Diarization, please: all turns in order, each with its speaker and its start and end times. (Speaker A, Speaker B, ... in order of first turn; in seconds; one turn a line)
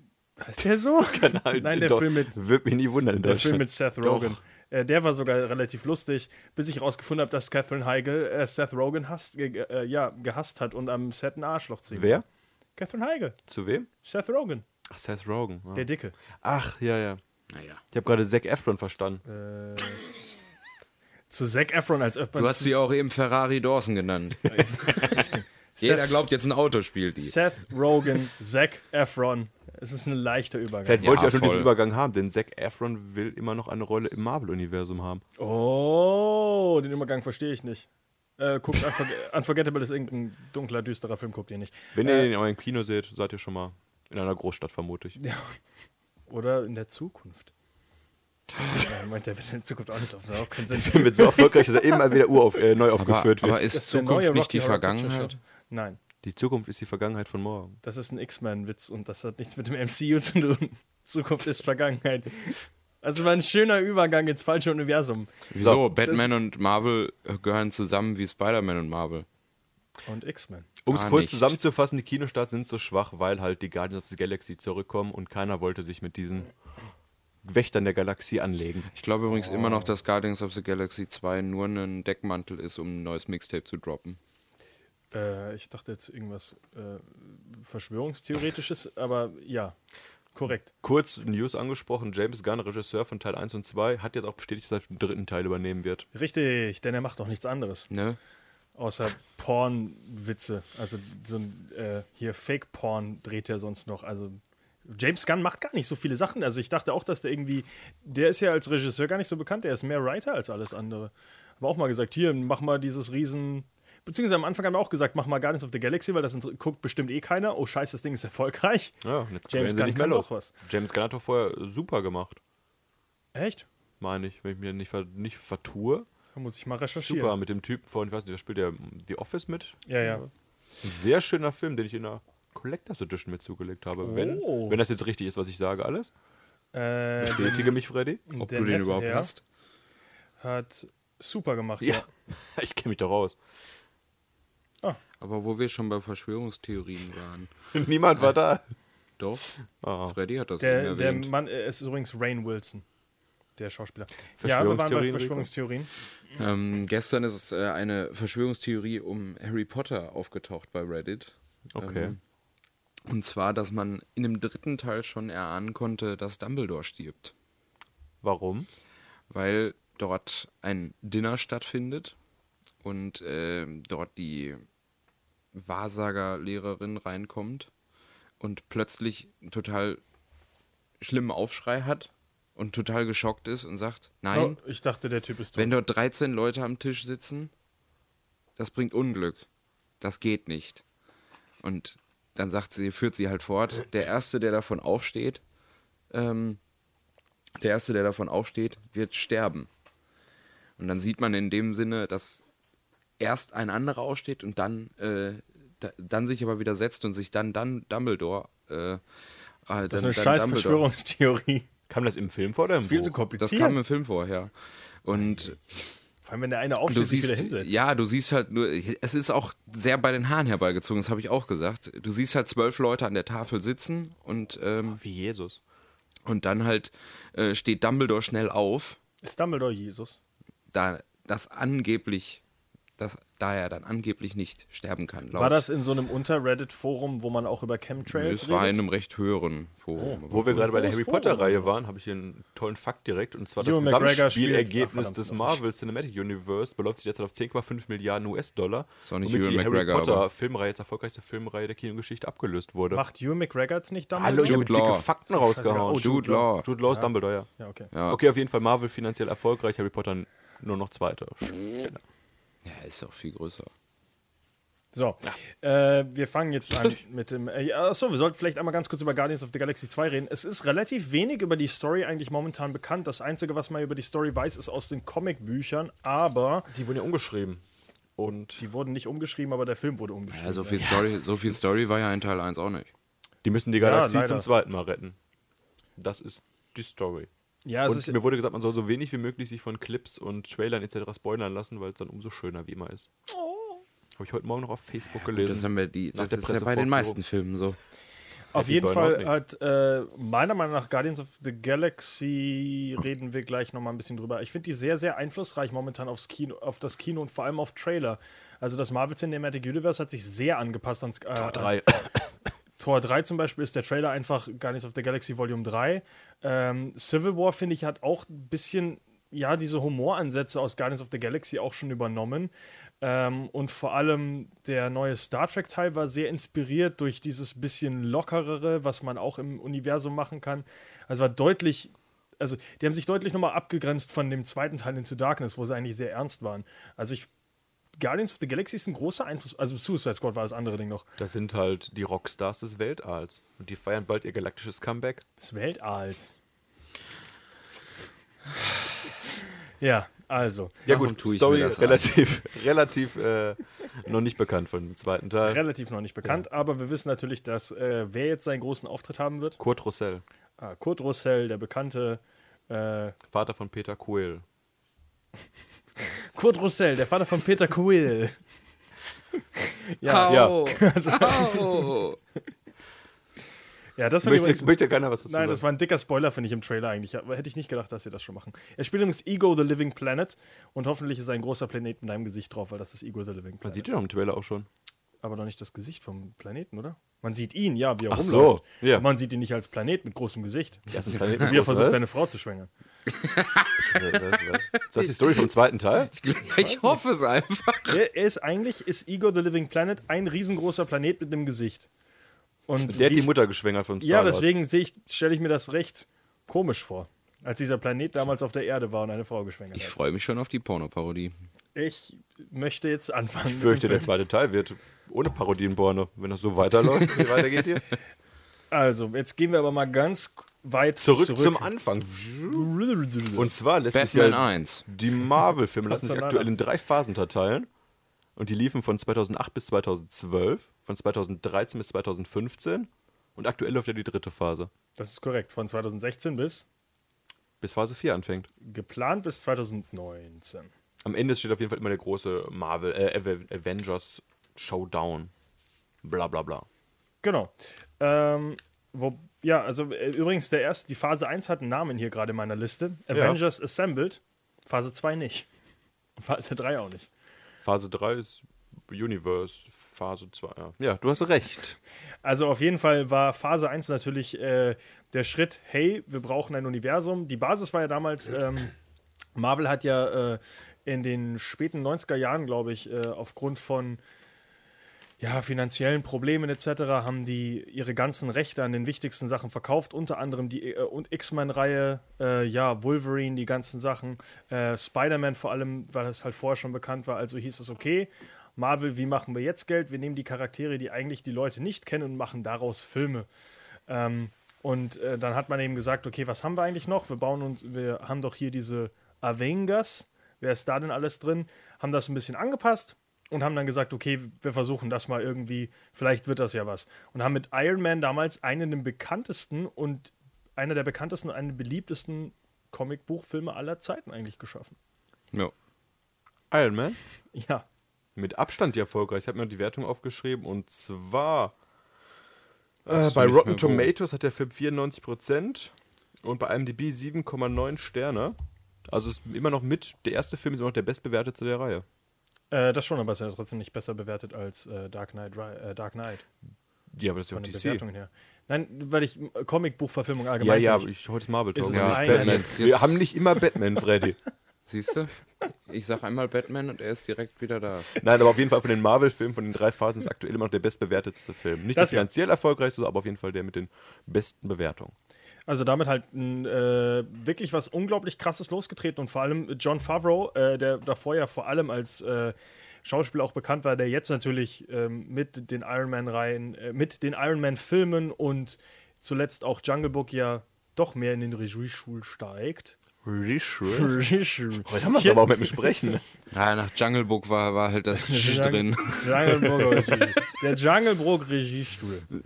Speaker A: 0.4-2.4
Speaker B: 1.1-3.7
Speaker A: 3.2-12.2
Speaker C: 4.0-4.4
Speaker B: 11.9-12.2
Speaker A: 12.8-13.4
Speaker B: 13.5-13.9
Speaker A: 14.0-14.6
Speaker B: 14.9-15.9
Speaker A: 15.7-16.2
Speaker B: 16.4-17.2
Speaker C: 17.5-17.8
Speaker B: 17.9-19.2
Speaker A: 19.2-20.1
Speaker A: 21.3-22.7
Speaker C: 22.4-27.4
Speaker A: 24.5-26.1
Speaker A: 27.2-31.1
Speaker B: 30.9-35.2
Speaker C: 31.0-31.7
Speaker A: 35.4-42.3
Speaker B: 42.0-45.2
Speaker A: 45.2-45.6
Speaker A: 46.3-47.5
Speaker A: 48.7-51.8
Speaker B: 50.7-53.7
Speaker C: 53.0-55.4
Speaker A: 53.7-56.0
Speaker B: 56.2-57.8
Speaker A: 57.8-65.4
Speaker C: 65.5-69.3
Speaker B: 65.6-65.9
Speaker A: 66.0-66.2
Speaker A: 70.1-70.7
Speaker B: 70.8-76.5
Speaker C: 70.9-71.5
Speaker B: 77.4-78.9
Speaker C: 78.9-84.2
Speaker A: 79.3-79.9
Speaker A: 85.1-89.8
Speaker A: 90.3-90.7
Speaker B: 90.8-96.1
Speaker A: 96.1-97.9
Speaker C: 97.9-98.2
Speaker A: 98.8-119.0
Speaker B: 119.0-122.4
Speaker A: 119.5-120.5
Speaker A: 123.3-123.7
Speaker B: 124.0-126.1
Speaker A: 126.3-127.3
Speaker B: 127.0-130.2
Speaker A: 129.9-130.3
Speaker B: 130.8-136.1
Speaker A: 134.0-134.8
Speaker A: 136.7-137.8
Speaker B: 137.2-138.2
Speaker A: 138.3-139.3
Speaker C: 138.4-139.4
Speaker A: 140.4-142.1
Speaker B: 141.8-143.4
Speaker C: 145.2-147.5
Speaker B: 147.7-148.6
Speaker C: 149.2-149.5
Speaker B: 149.8-150.2
Speaker C: 150.0-151.3
Speaker A: 150.6-152.8
Speaker A: 153.6-155.9
Speaker B: 154.4-155.5
Speaker C: 156.4-162.2
Speaker B: 161.7-162.2
Speaker C: 163.1-167.3
Speaker B: 168.2-168.7
Speaker C: 169.3-172.2
Speaker C: 172.8-174.6
Speaker C: 175.5-177.7
Speaker C: 178.4-180.0
Speaker C: 181.0-184.6
Speaker A: 184.3-185.7
Speaker C: 185.6-187.5
Speaker C: 188.6-189.4
Speaker C: 190.0-190.8
Speaker C: 191.6-195.4
Speaker C: 196.1-196.6
Speaker C: 197.6-199.7
Speaker C: 200.8-202.4
Speaker C: 203.2-209.0
Speaker C: 209.7-210.9
Speaker A: 209.9-211.7
Speaker B: 211.9-213.1
Speaker A: 212.8-213.8
Speaker C: 213.4-214.5
Speaker C: 215.0-215.8
Speaker A: 216.2-217.7
Speaker C: 216.9-225.0
Speaker B: 224.9-225.6
Speaker C: 226.3-229.0
Speaker A: 229.2-230.2
Speaker C: 230.7-232.4
Speaker C: 233.0-235.6
Speaker A: 235.3-238.8
Speaker C: 238.1-240.6
Speaker A: 240.0-241.7
Speaker B: 240.3-253.0
Speaker A: 243.6-245.6
Speaker C: 249.1-250.3
Speaker A: 252.9-254.6
Speaker B: 254.2-257.5
Speaker C: 254.3-255.1
Speaker A: 255.3-257.9
Speaker C: 255.9-256.7
Speaker C: 257.9-258.2
Speaker B: 258.1-262.0
Speaker C: 262.6-263.7
Speaker A: 264.9-276.7
Speaker B: 276.7-277.6
Speaker B: 278.2-278.6
Speaker A: 278.6-280.9
Speaker C: 280.3-282.9
Speaker B: 280.8-281.1
Speaker B: 283.4-285.2
Speaker A: 283.8-284.5
Speaker B: 286.0-287.3
Speaker A: 287.7-288.2
Speaker B: 287.9-293.1
Speaker A: 293.3-293.8
Speaker B: 294.2-297.2
Speaker C: 295.3-297.8
Speaker A: 298.5-311.8
Speaker B: 298.5-299.3
Speaker B: 311.4-312.3
Speaker A: 312.8-337.3
Speaker A: 338.0-341.1
Speaker B: 341.2-345.2
Speaker A: 345.4-346.4
Speaker A: 349.8-350.8
Speaker B: 350.9-355.6
Speaker C: 350.9-352.1
Speaker A: 355.4-359.6
Speaker B: 359.6-360.2
Speaker A: 360.6-363.2
Speaker B: 363.3-364.4
Speaker A: 366.0-368.4
Speaker A: 369.6-372.0
Speaker C: 370.0-372.2
Speaker B: 370.3-370.6
Speaker A: 374.0-383.9
Speaker B: 374.2-375.6
Speaker B: 383.6-384.7
Speaker A: 385.2-392.7
Speaker B: 388.1-389.1
Speaker B: 390.9-392.0
Speaker C: 393.1-395.5
Speaker B: 393.8-396.1
Speaker C: 396.1-398.0
Speaker A: 396.6-397.0
Speaker A: 397.9-401.9
Speaker A: 402.7-403.4
Speaker B: 402.8-404.5
Speaker A: 404.0-410.0
Speaker C: 409.8-411.3
Speaker A: 411.8-414.1
Speaker B: 413.5-417.9
Speaker A: 418.7-421.7
Speaker B: 421.0-422.7
Speaker A: 422.5-423.5
Speaker B: 423.4-427.7
Speaker C: 423.9-424.9
Speaker A: 425.9-426.6
Speaker B: 428.4-434.7
Speaker A: 435.0-436.7
Speaker B: 437.6-438.5
Speaker A: 438.6-440.7
Speaker B: 441.0-445.3
Speaker B: 446.0-446.7
Speaker A: 447.2-455.5
Speaker B: 453.1-453.4
Speaker A: 456.2-457.1
Speaker B: 457.6-461.8
Speaker A: 462.2-468.7
Speaker A: 469.4-474.0
Speaker A: 475.2-493.3
Speaker A: 493.9-514.8
Speaker B: 516.5-517.0
Speaker A: 517.3-517.7
Speaker B: 518.2-521.5
Speaker B: 522.9-528.4
Speaker C: 522.9-523.9
Speaker B: 528.9-531.9
Speaker A: 532.5-536.2
Speaker B: 536.9-537.8
Speaker A: 537.3-540.9
Speaker B: 540.4-544.2
Speaker A: 541.5-542.6
Speaker C: 541.7-543.1
Speaker C: 544.7-548.0
Speaker B: 548.0-554.9
Speaker A: 551.8-552.1
Speaker A: 555.5-572.8
Speaker B: 573.0-574.0
Speaker A: 573.7-575.8
Speaker B: 574.6-576.0
Speaker C: 576.3-579.5
Speaker A: 577.9-582.1